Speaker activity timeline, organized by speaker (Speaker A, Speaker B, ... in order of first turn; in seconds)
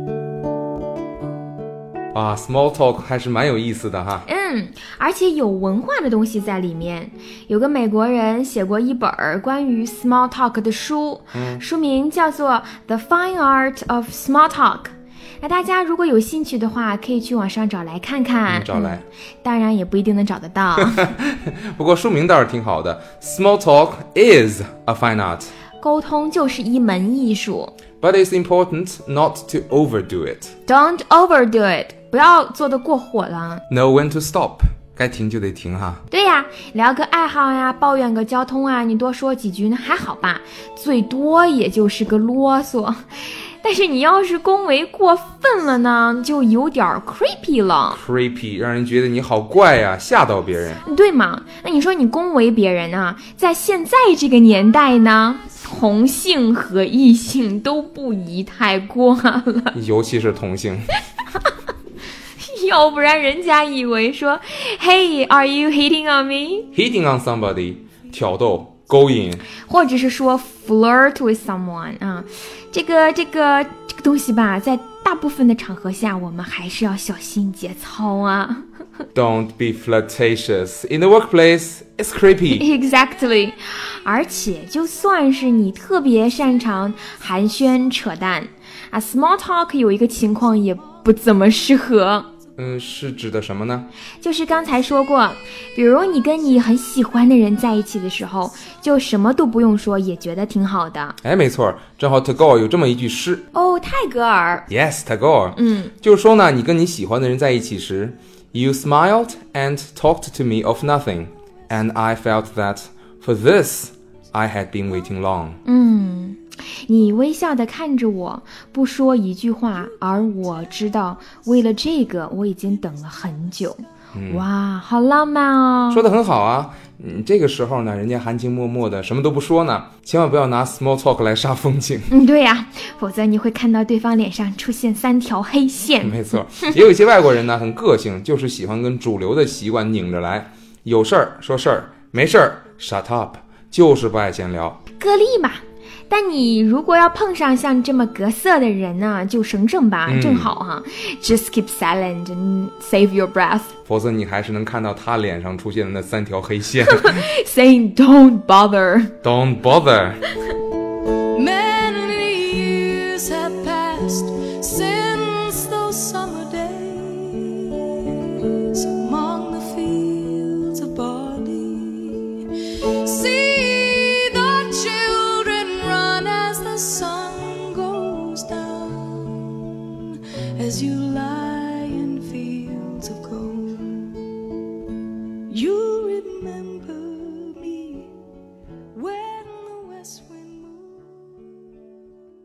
Speaker A: 2.1-4.2, 11.3-11.6, 18.5-19.0, 20.9-25.5, 28.0-30.5, 33.7-36.0, 47.9-50.8, 59.7-60.9, 66.7-69.4, 79.1-82.7, 92.5-93.9, 101.2-103.5, 104.7-115.6, 124.1-124.5, 125.9-132.1, 136.0-144.8, 150.1-150.5, 153.8-157.3, 159.2-160.2
Speaker B: 4.2-21.1, 25.8-27.7, 30.7-33.6, 36.1-48.0, 50.8-59.7, 62.4-66.7, 69.7-78.6, 82.5-92.3, 94.2-101.2, 103.5-104.7, 105.5-105.9, 115.6-126.0, 132.1-136.7, 145.0-153.7, 156.8-159.1
Speaker C: 161.3-184.3, 185.5-188.1, 188.9-191.4